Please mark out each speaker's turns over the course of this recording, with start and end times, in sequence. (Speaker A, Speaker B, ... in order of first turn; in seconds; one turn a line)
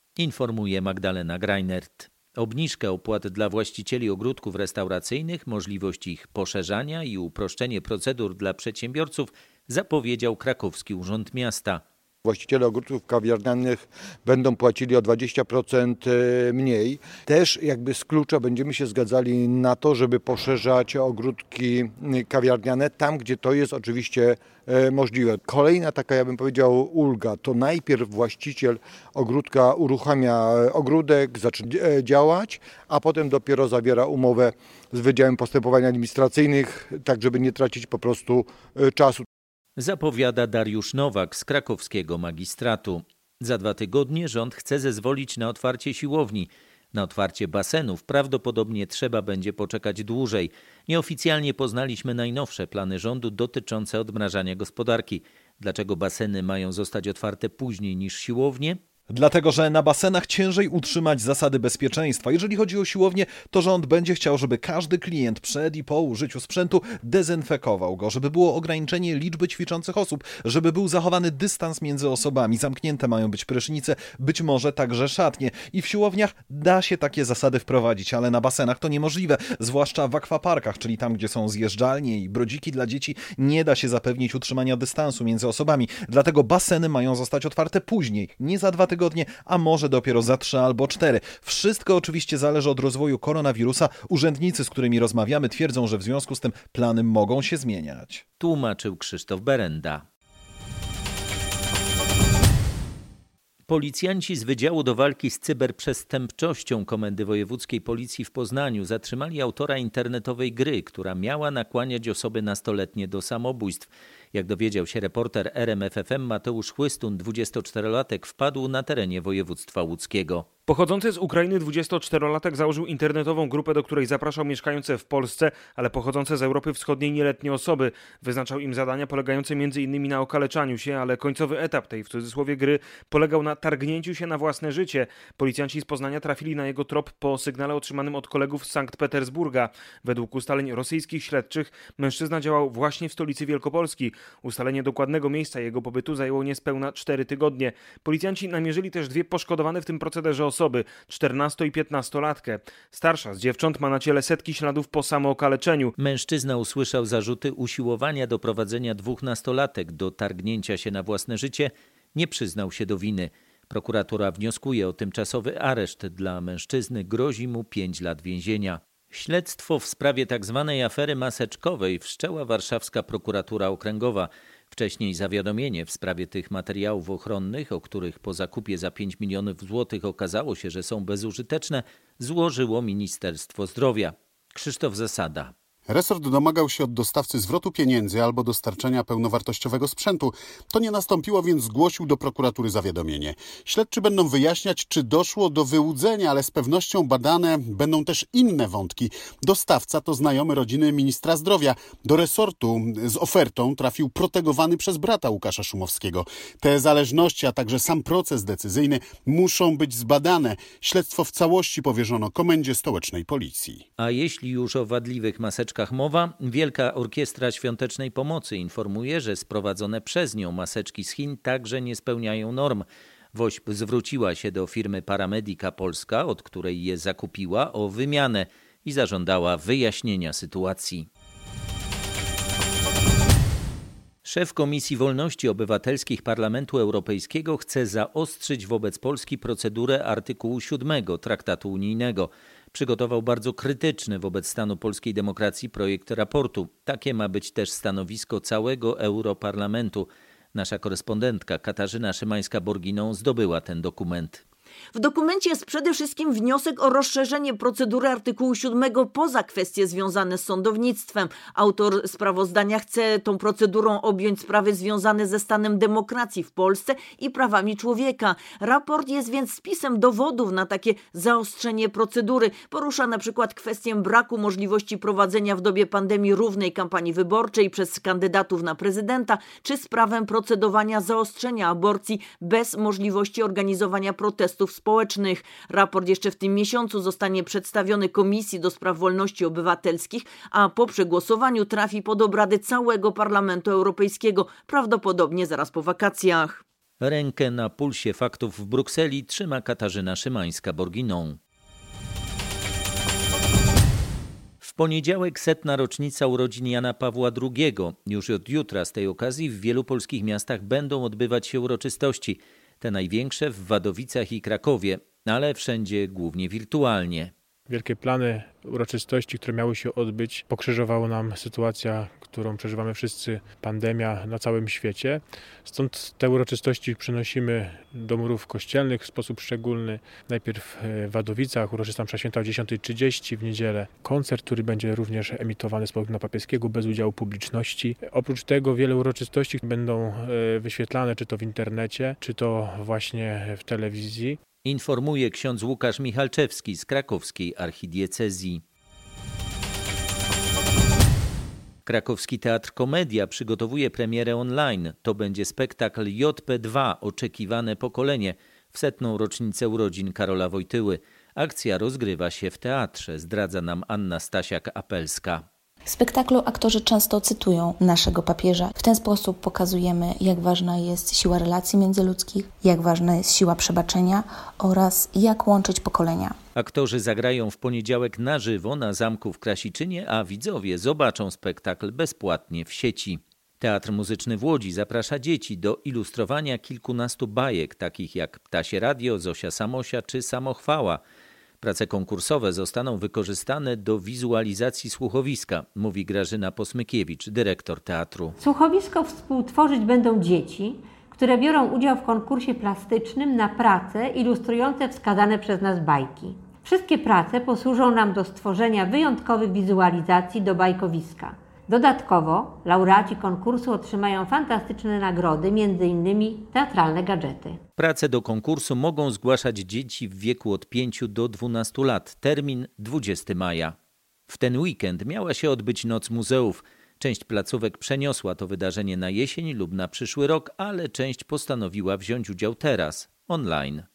Speaker A: 0.1-11.8
Speaker B: 12.2-39.2
Speaker A: 39.8-58.8
Speaker C: 59.1-98.2
Speaker A: 98.4-100.0
Speaker A: 103.7-120.5
Speaker D: 120.7-155.9
Speaker A: 156.0-185.5
Speaker E: 185.9-213.8
Speaker A: 214.0-231.1
Speaker A: 234.2-254.4
Speaker F: 254.9-296.6
Speaker A: 297.0-301.4
Speaker A: 304.6-317.3
Speaker G: 317.7-344.4
Speaker A: 344.6-348.6
Speaker A: 351.9-365.4
Speaker H: 365.9-376.3
Speaker A: 376.6-391.0
Speaker A: 391.6-398.3
Speaker I: 398.4-417.6
Speaker A: 417.8-423.8
Speaker A: 424.3-433.9